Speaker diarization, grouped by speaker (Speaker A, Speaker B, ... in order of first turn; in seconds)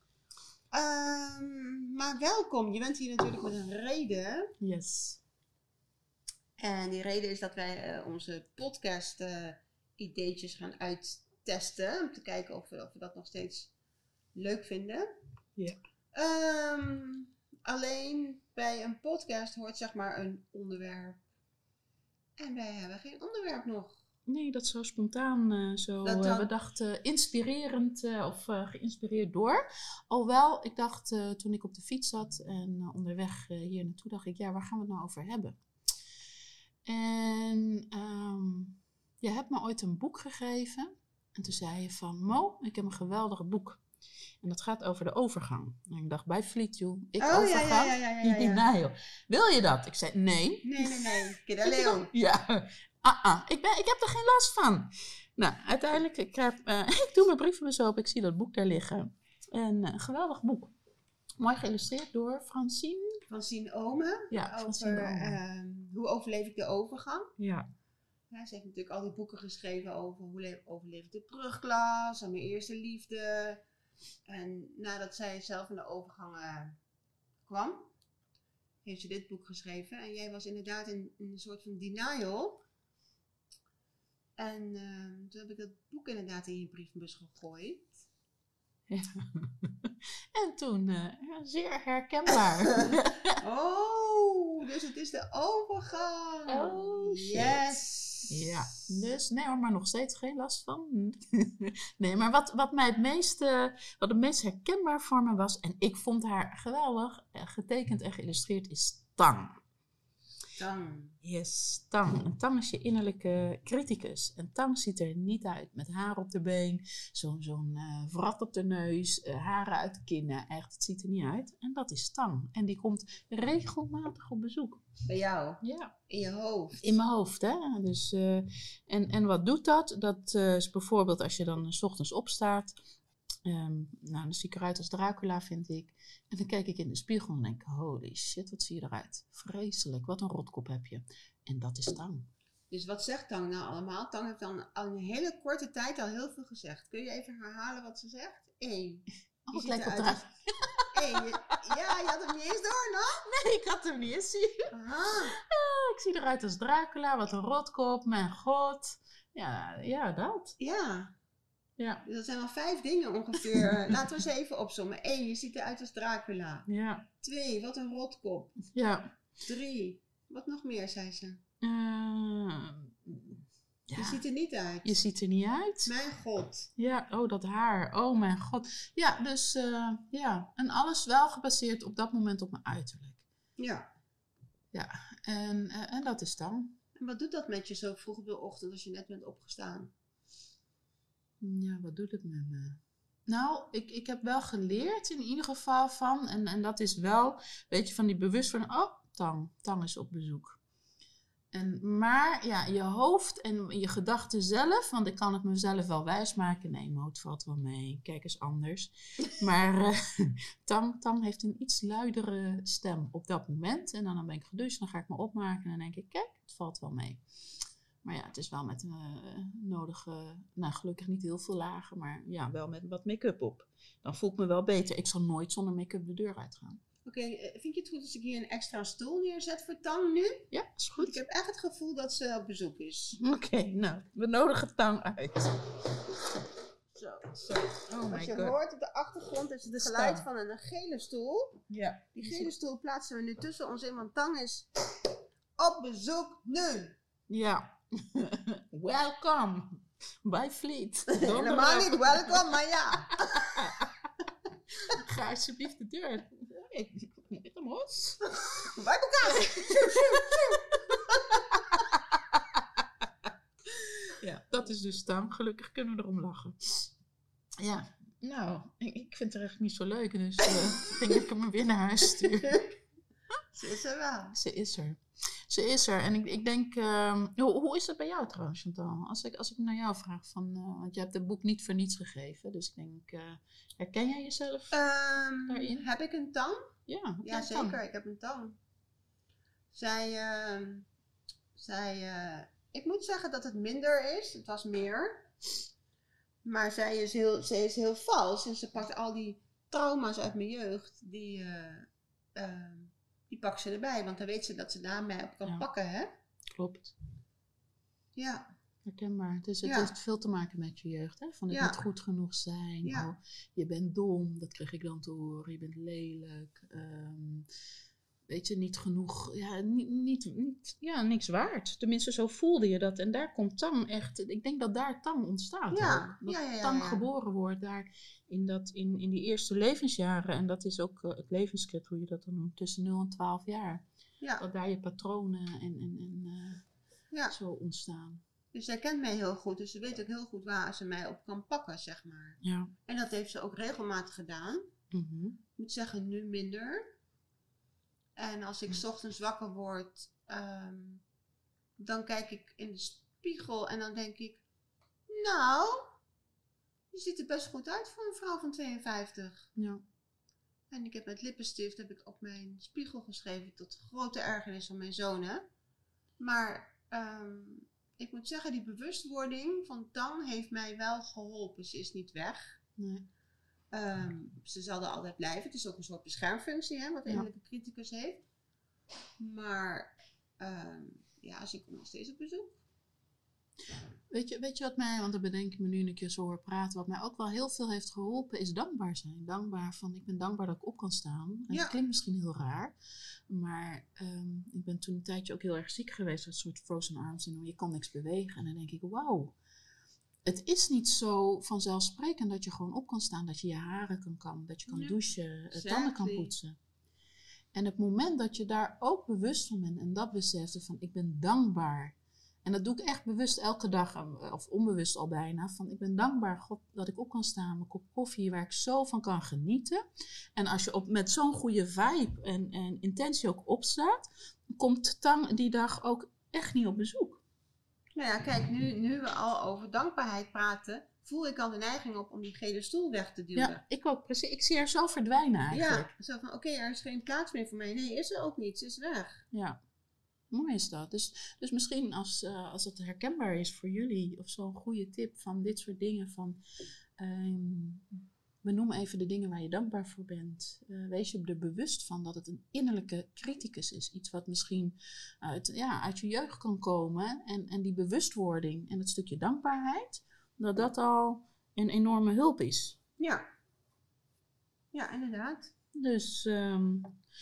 Speaker A: 0.7-4.5, 6.6-13.7, 14.3-15.1, 16.1-21.2, 22.4-24.0, 26.0-26.5, 47.2-48.6, 50.6-52.1, 63.3-67.3, 68.3-73.6, 74.3-76.8, 77.5-77.9, 78.8-82.6, 84.4-88.0, 93.4-98.5, 110.6-111.2, 125.1-127.0, 142.7-150.2, 150.9-153.2, 154.7-155.3, 160.6-161.1, 162.1-166.7, 167.2-168.6, 169.4-171.4, 173.9-175.0, 175.9-176.7, 183.6-183.9, 187.0-189.9, 227.1-233.2, 236.9-237.6, 238.1-241.6, 242.2-244.7, 245.6-246.9, 251.1-253.7, 258.4-261.8, 273.5-274.4, 284.7-286.7, 287.2-288.6, 289.7-290.9, 291.6-295.3, 296.4-306.1, 308.1-308.5, 309.6-309.9, 311.5-311.8, 312.8-313.1, 325.7-327.1, 338.5-344.7, 345.6-346.9, 348.2-351.0, 351.8-354.4, 355.1-355.9, 356.9-359.5, 360.7-365.5, 366.2-372.6, 373.7-378.2, 379.2-382.6, 391.5-391.8, 404.7-406.4, 428.0-433.6, 435.5-439.2, 463.0-463.2, 464.7-465.5
Speaker B: 4.6-5.2, 24.3-35.6, 36.9-43.8, 44.4-60.7, 61.4-63.2, 64.3-65.4, 67.4-67.7, 88.9-93.4, 96.5-97.8, 98.3-109.6, 111.2-124.8, 125.6-125.9, 126.8-132.8, 133.5-142.3, 149.5-151.2, 153.2-154.7, 155.3-160.6, 161.8-162.0, 163.6-163.9, 166.7-167.1, 168.7-169.1, 171.6-174.2, 174.8-175.9, 176.8-183.2, 184.7-186.8, 191.4-200.6, 201.5-217.2, 218.0-226.8, 230.5-231.2, 233.2-235.6, 237.3-238.6, 239.7-240.3, 241.7-242.6, 247.3-252.6, 253.3-254.1, 254.8-258.4, 260.7-261.0, 261.8-262.6, 263.7-266.9, 267.6-272.6, 274.3-284.8, 285.5-285.9, 286.9-287.8, 306.6-306.9, 308.9-317.5, 318.3-333.8, 334.4-336.6, 337.3-338.2, 342.4-342.7, 344.9-345.4, 359.6-359.8, 372.8-373.1, 384.1-392.8, 393.3-399.4, 400.2-406.6, 407.5-419.8, 420.4-427.2, 433.4-435.9, 439.3-439.6, 440.3-446.4, 447.0-462.8, 465.7-467.0